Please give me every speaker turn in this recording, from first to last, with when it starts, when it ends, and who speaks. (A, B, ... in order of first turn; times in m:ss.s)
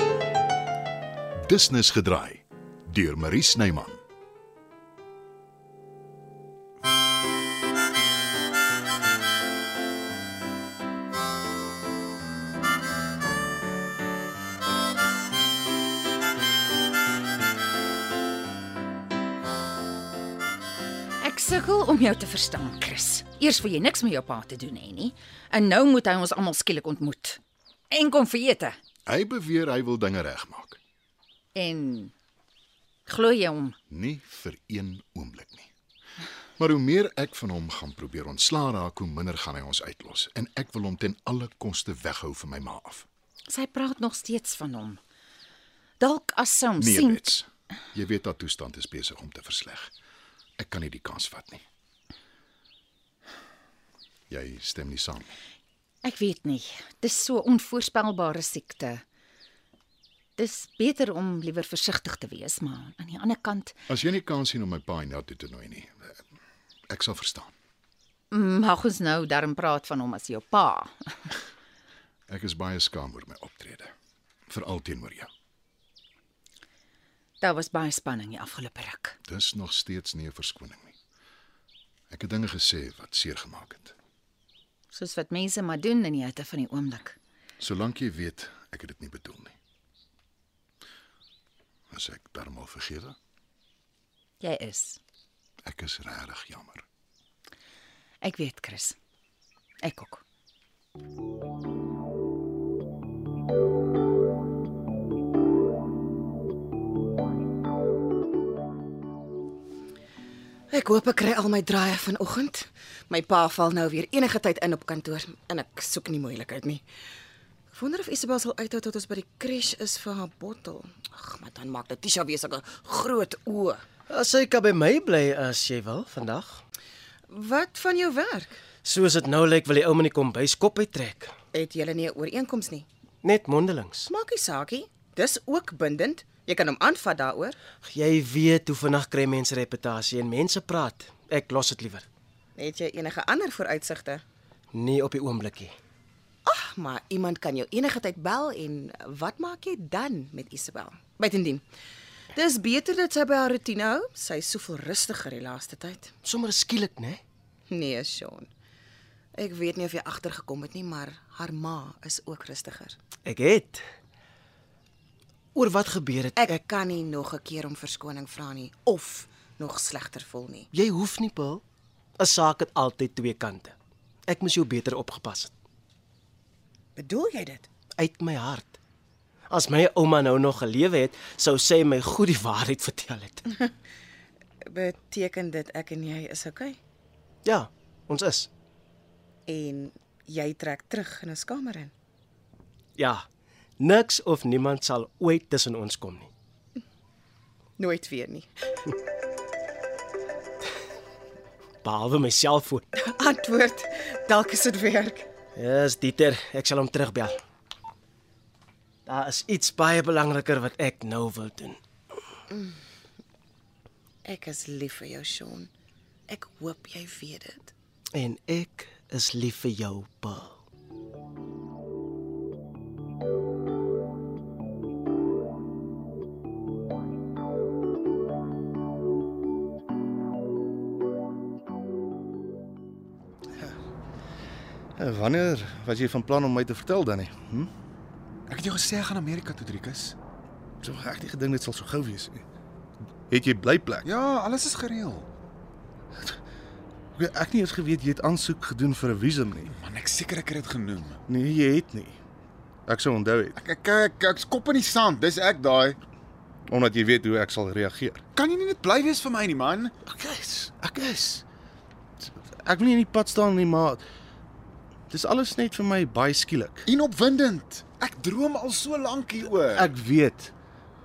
0:01.4-0:04.0 A
0:21.2-0:27.4 B
0:27.9-0:28.8 B
0:29.1-0:30.8 A
0:31.5-0:32.1 B
0:33.1-0:33.7 B
0:33.9-0:35.7 A
0:36.6-0:43.1 A
0:43.5-0:45.0 B
0:46.0-0:47.2 B
0:46.8-0:49.9 A
0:50.6-0:51.6 A
0:54.3-0:55.3 A
0:56.0-0:59.0 B
1:00.4-1:03.8 B
1:03.9-1:06.2 A
1:06.9-1:07.5 A
1:08.3-1:11.3 B
1:12.3-1:13.9 A
1:14.5-1:15.3 A
1:17.4-1:19.1 B
1:19.3-1:20.9 A
1:22.1-1:23.9 A
1:24.9-1:27.2 B
1:27.6-1:29.5 A
1:31.9-1:33.2 A
1:34.4-1:35.0 B
1:35.6-1:36.8 A
1:38.2-1:39.0 B
1:39.8-1:40.2 B
1:50.7-1:56.8 C
1:57.7-2:03.8 C
2:04.1-2:06.6 D
2:07.3-2:08.6 C
2:08.8-2:11.3 D
2:11.5-2:12.9 C
2:13.2-2:14.1 D
2:14.1-2:17.6 C
2:17.8-2:22.0 D
2:22.6-2:24.2 C
2:24.7-2:25.7 D
2:26.4-2:31.6 C
2:32.3-2:36.1 C
2:36.2-2:37.2 D
2:37.7-2:38.5 C
2:39.4-2:43.0 C
2:43.2-2:43.8 D
2:45.5-2:46.4 D
2:46.4-2:50.7 C
2:50.7-2:51.6 D
2:52.2-2:53.7 D
2:54.3-2:55.5 D
2:57.0-2:57.7 C
2:58.0-2:58.8 D
2:59.5-3:03.4 D
3:04.7-3:06.8 C
3:07.4-3:08.5 D
3:09.5-3:11.9 C
3:13.0-3:13.2 D
3:13.8-3:16.3 D
3:17.8-3:18.5 C
3:21.8-3:22.9 D
3:23.0-3:25.3 C
3:25.6-3:27.4 D
3:29.0-3:31.8 D
3:32.5-3:32.7 C
3:34.2-3:35.7 C
3:36.3-3:37.7 C
3:38.1-3:40.6 D
3:55.0-3:57.7 E
3:58.5-4:00.2 F
4:00.8-4:02.4 E
4:03.3-4:04.1 E
4:04.0-4:05.3 F
4:07.2-4:09.7 E
4:09.7-4:11.2 F
4:11.3-4:12.2 E
4:12.9-4:13.6 E
4:13.6-4:16.0 F
4:16.7-4:18.2 E
4:18.3-4:19.9 F
4:20.1-4:21.4 E
4:22.2-4:24.0 E
4:25.1-4:26.9 E
4:26.8-4:29.9 F
4:29.6-4:30.5 E